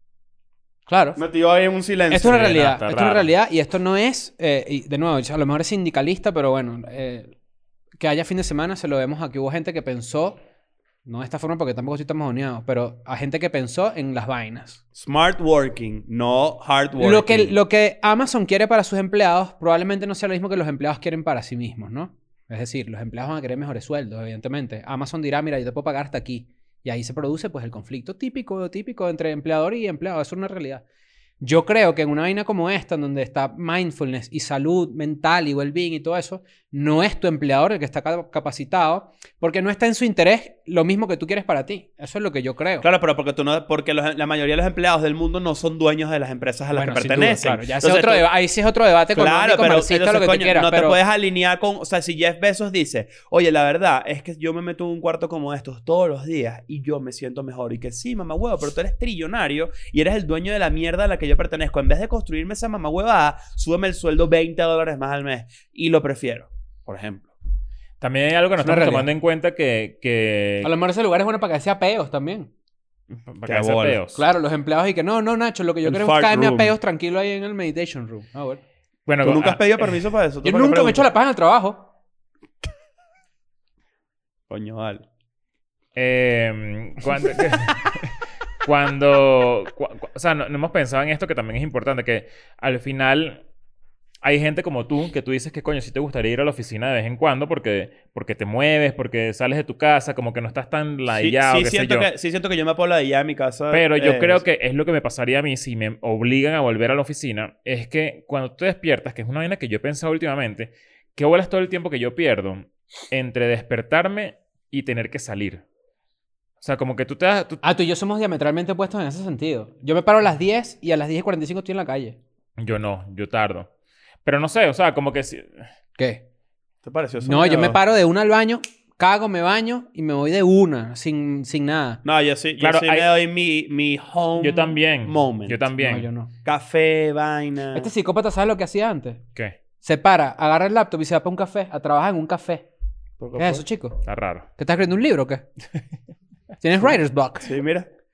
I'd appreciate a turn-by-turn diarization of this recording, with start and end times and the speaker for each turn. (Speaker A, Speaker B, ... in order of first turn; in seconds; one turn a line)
Speaker A: 0.9-1.2
Speaker B: 1.1-2.6
Speaker A: 2.1-7.3
Speaker C: 2.3-3.3
Speaker A: 8.0-10.4
Speaker A: 11.0-14.8
Speaker B: 14.9-17.5
Speaker A: 17.0-30.8
Speaker A: 31.4-42.9
Speaker B: 42.8-48.3
Speaker A: 46.7-51.0
Speaker B: 49.1-67.3
Speaker C: 68.0-70.7
Speaker A: 68.6-69.1
Speaker A: 70.6-72.5
Speaker C: 73.2-74.2
Speaker B: 73.5-74.0
Speaker A: 74.1-78.6
Speaker B: 75.8-76.7
Speaker C: 79.1-79.6
Speaker B: 79.2-81.1
Speaker A: 80.4-81.9
Speaker B: 84.5-85.0
Speaker C: 86.0-88.1
Speaker C: 88.6-93.4
Speaker C: 94.2-102.1
Speaker B: 101.1-104.4
Speaker C: 103.7-115.6
Speaker C: 116.6-117.6
Speaker A: 117.6-122.2
Speaker C: 122.6-123.7
Speaker C: 124.2-125.7
Speaker A: 126.0-126.2
Speaker B: 126.8-127.8
Speaker A: 127.2-132.0
Speaker B: 132.0-135.6
Speaker C: 132.6-133.1
Speaker C: 134.4-136.1
Speaker A: 135.8-136.3
Speaker B: 136.4-137.9
Speaker A: 137.7-139.2
Speaker A: 139.8-142.7
Speaker B: 143.2-143.6
Speaker A: 143.4-144.0
Speaker C: 144.1-144.5
Speaker A: 144.6-145.4
Speaker A: 146.6-147.5
Speaker B: 146.8-147.9